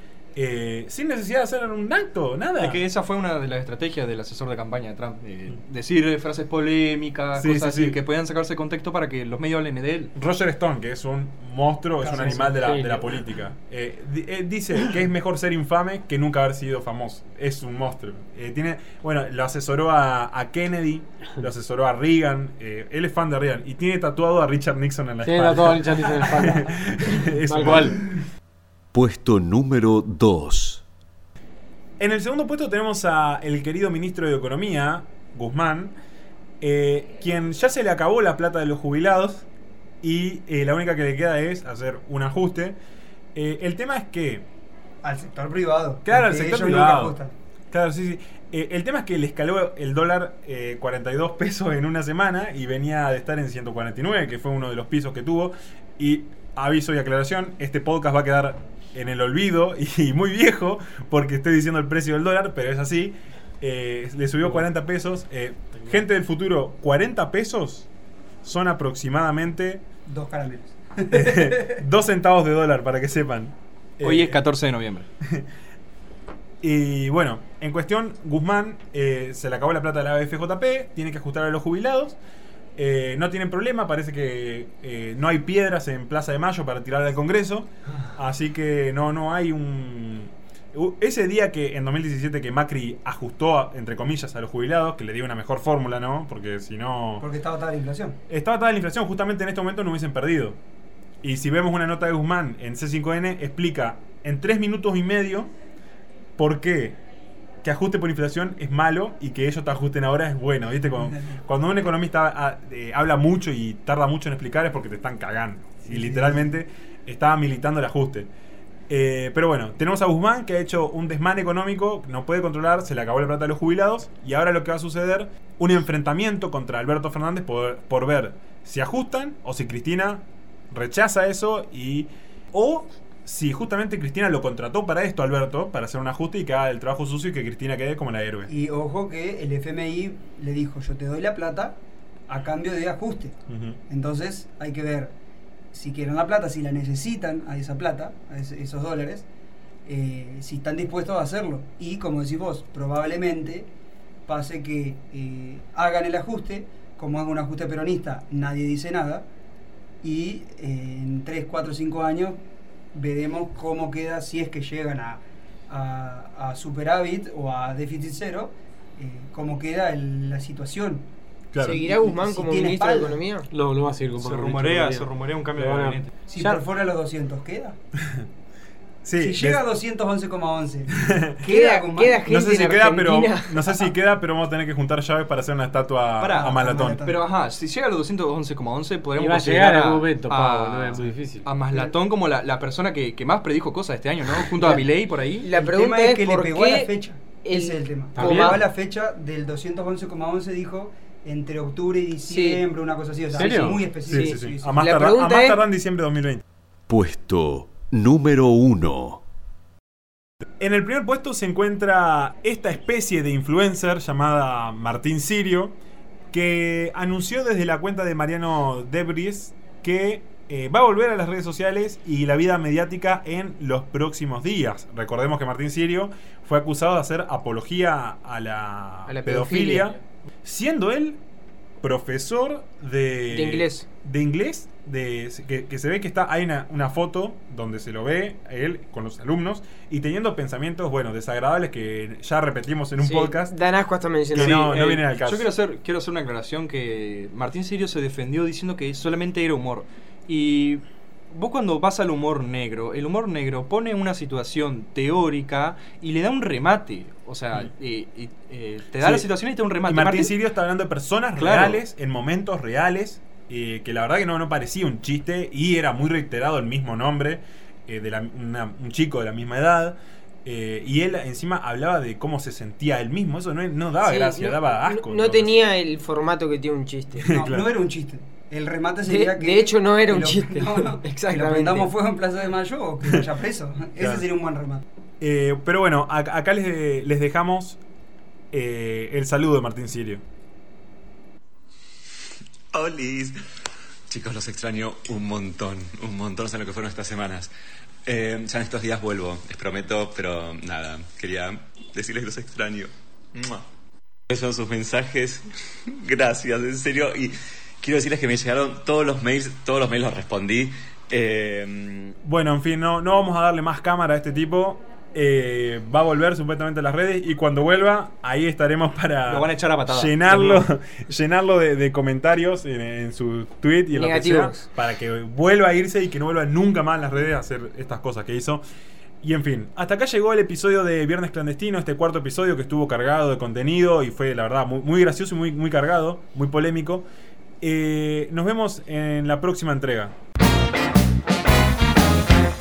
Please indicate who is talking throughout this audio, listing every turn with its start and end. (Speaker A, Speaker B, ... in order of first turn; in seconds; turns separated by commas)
Speaker A: 0.3-2.8, Speaker B: 2.6-10.1, Speaker A: 7.3-8.0, Speaker A: 10.1-28.1, Speaker C: 12.0-12.6, Speaker D: 12.2-13.1, Speaker D: 25.2-28.0, Speaker E: 28.9-30.8, Speaker A: 32.0-36.0, Speaker A: 36.6-39.5, Speaker A: 40.0-42.8, Speaker A: 43.3-44.5, Speaker C: 45.0-47.3, Speaker A: 46.0-47.1, Speaker A: 47.7-67.9, Speaker A: 68.4-69.8, Speaker C: 70.1-71.8, Speaker A: 71.1-74.4, Speaker B: 74.0-75.1, Speaker A: 76.6-82.2, Speaker A: 82.8-97.2, Speaker C: 97.2-98.2, Speaker A: 98.3-100.6, Speaker A: 101.2-105.5, Speaker A: 106.4-107.0, Speaker A: 107.6-118.3, Speaker C: 115.9-116.5, Speaker A: 118.9-138.5, Speaker C: 138.5-143.4, Speaker A: 143.5-143.8, Speaker C: 143.9-145.1, Speaker C: 145.7-149.2, Speaker C: 149.8-153.7, Speaker C: 154.2-159.3, Speaker C: 160.0-162.4, Speaker C: 162.9-171.1, Speaker A: 171.5-171.8, Speaker F: 171.6-173.5, Speaker C: 171.6-173.2, Speaker D: 173.5-176.6, Speaker B: 174.2-176.1, Speaker C: 176.3-177.8, Speaker A: 178.0-178.2, Speaker A: 179.0-179.6, Speaker C: 179.2-182.2, Speaker A: 181.0-181.3, Speaker F: 181.5-183.9, Speaker A: 182.3-187.0, Speaker B: 186.2-195.5, Speaker C: 186.4-187.2, Speaker D: 189.2-191.5, Speaker F: 195.4-196.9, Speaker C: 195.4-204.7, Speaker F: 197.4-198.6, Speaker D: 198.2-198.6, Speaker F: 202.3-202.6, Speaker D: 203.3-203.8, Speaker F: 203.3-205.6, Speaker A: 204.1-206.4, Speaker E: 206.9-209.2, Speaker A: 210.6-215.7, Speaker A: 216.3-231.2, Speaker F: 229.1-230.0, Speaker A: 231.8-243.5, Speaker F: 233.3-233.8, Speaker F: 243.0-244.7, Speaker A: 244.3-245.5, Speaker B: 244.3-260.4, Speaker A: 259.0-259.3, Speaker A: 259.8-275.6, Speaker B: 261.4-261.8, Speaker F: 274.0-277.3, Speaker A: 277.2-277.7, Speaker C: 277.2-284.8, Speaker F: 279.1-281.9, Speaker A: 284.0-284.3, Speaker A: 285.2-287.8, Speaker A: 288.5-290.2, Speaker G: 292.7-293.3, Speaker G: 294.1-297.5, Speaker G: 298.1-303.6, Speaker G: 304.3-312.1, Speaker A: 312.2-328.6, Speaker B: 319.3-320.6, Speaker F: 323.9-324.6, Speaker A: 329.2-337.1, Speaker A: 337.6-340.1